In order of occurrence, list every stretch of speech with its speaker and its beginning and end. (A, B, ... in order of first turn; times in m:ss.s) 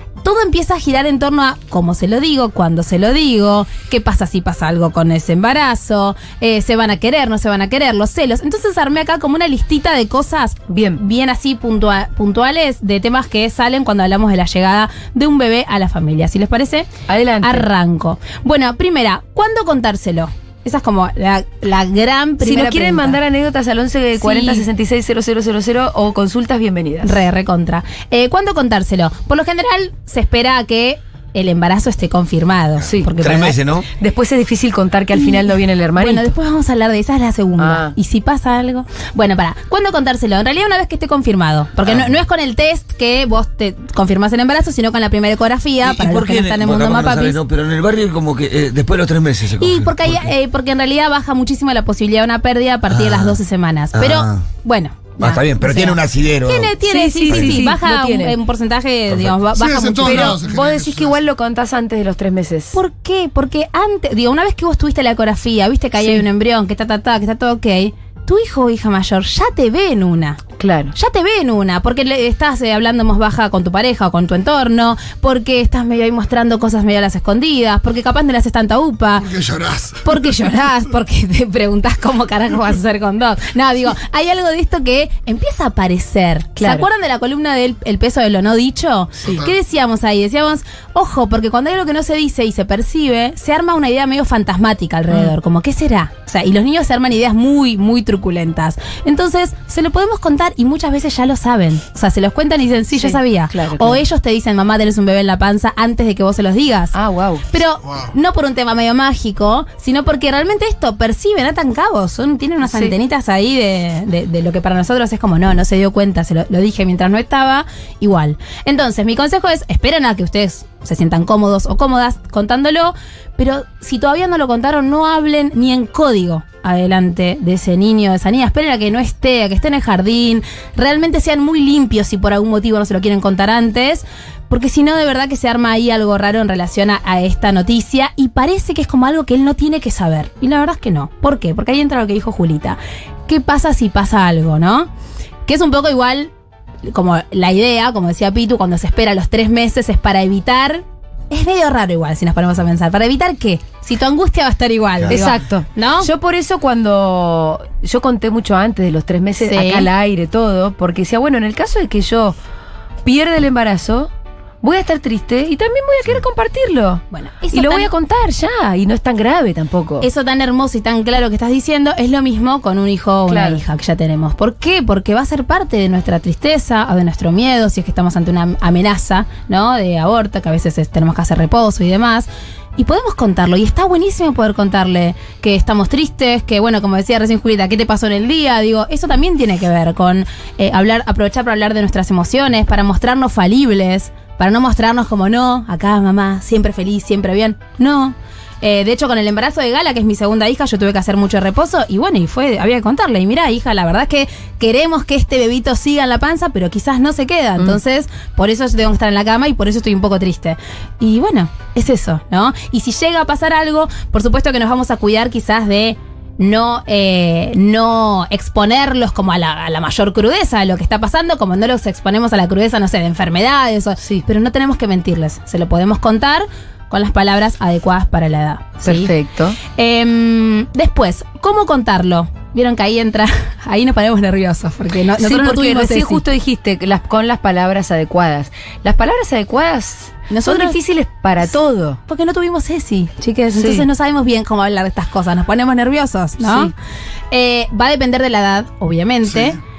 0:00.2-0:16.9 A
0:10.7-0:11.0 B
0:17.1-0:17.7 B
0:17.4-0:23.2 A
0:22.4-0:27.2 B
0:24.2-0:24.6 A
0:27.0-0:33.6 A
0:33.2-0:33.9 C
0:34.0-0:36.3 B
0:35.1-0:35.4 A
0:36.0-0:47.4 A
0:37.6-0:37.9 B
0:45.8-0:50.3 C
0:49.6-1:00.4 A
0:52.9-0:53.4 C
0:53.9-0:54.4 C
0:55.2-0:56.7 C
0:56.8-0:58.4 B
0:57.3-0:57.6 C
0:59.1-0:59.4 C
0:59.5-1:01.2 D
1:00.0-1:02.8 B
1:02.7-1:10.4 A
1:10.6-1:10.9 B
1:10.9-1:19.3 A
1:19.2-1:20.2 D
1:20.0-1:46.9 A
1:26.6-1:26.9 B
1:29.2-1:29.5 D
1:42.9-1:44.0 B
1:46.9-1:47.4 B
1:47.5-2:24.9 A
1:47.8-1:48.1 D
1:52.6-1:52.9 B
2:25.4-2:26.3 A
2:26.8-2:36.1 A
2:35.1-2:42.3 B
2:39.4-2:39.9 A
2:43.0-2:44.1 B
2:44.6-2:50.1 B
2:47.1-2:47.9 A
2:50.0-3:49.1 A
2:53.3-2:53.6 B
3:48.8-3:49.6 B
3:49.7-3:56.2 A
3:55.2-4:02.0 B
4:00.3-4:00.8 A
4:02.1-4:06.7 A
4:03.4-4:03.8 B
4:06.4-4:06.7 B
4:07.3-4:09.6 A
4:09.3-4:09.6 D